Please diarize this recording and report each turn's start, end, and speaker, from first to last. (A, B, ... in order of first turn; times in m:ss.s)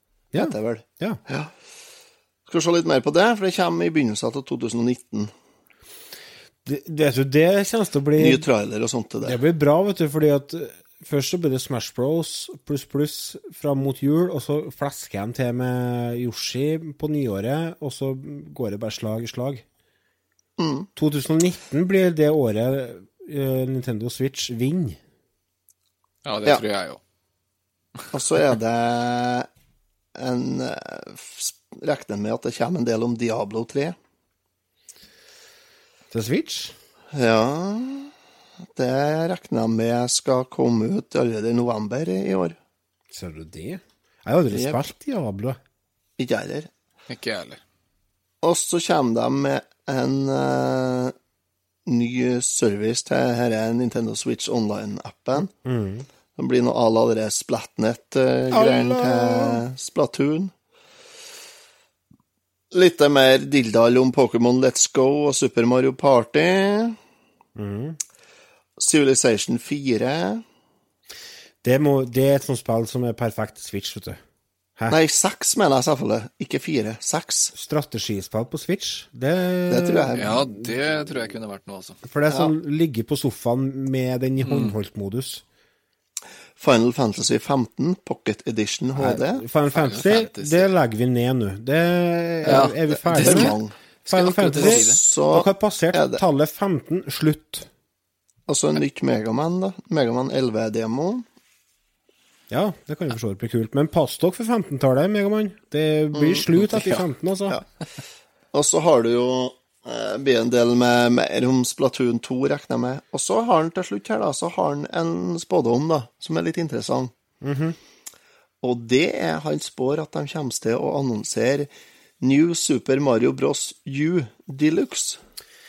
0:00.3-0:01.2 A
0:00.4-0:01.5 B
0:02.5-0:05.3 B
0:06.6-0:08.5 A
0:08.2-0:09.4 B
0:09.2-0:19.6 A
0:20.6-0:20.9 B
0:21.0-0:25.0 A
0:26.2-0:27.0 C
0:28.1-0:29.5 B
0:30.1-0:34.0 B
0:36.1-0:36.7 A
0:37.1-0:38.1 B
0:38.7-0:42.6 B
0:43.1-0:45.6 A
0:44.5-0:44.8 B
0:46.2-0:46.7 B
0:47.1-0:47.6 C
0:48.4-0:51.1 B
0:51.8-0:55.5 B
0:55.6-0:56.0 A
0:56.4-1:00.5 B
0:58.5-0:59.6 A
1:02.7-1:07.0 B
1:07.6-1:08.0 A
1:08.8-1:10.4 B
1:11.6-1:14.2 A
1:14.9-1:17.5 B
1:17.5-1:20.3 A
1:19.7-1:20.4 B
1:20.1-1:22.0 C
1:22.0-1:25.4 A
1:24.4-1:24.7 C
1:26.6-1:29.4 B
1:29.0-1:33.6 A
1:29.7-1:30.7 C
1:32.4-1:35.0 C
1:32.4-1:33.7 B
1:34.1-1:37.7 A
1:34.5-1:36.2 B
1:38.5-1:41.2 B
1:42.5-1:47.6 A
1:46.1-1:46.5 B
1:48.5-1:57.1 B
1:57.4-1:57.8 A
1:58.6-2:01.7 B
2:02.2-2:05.2 B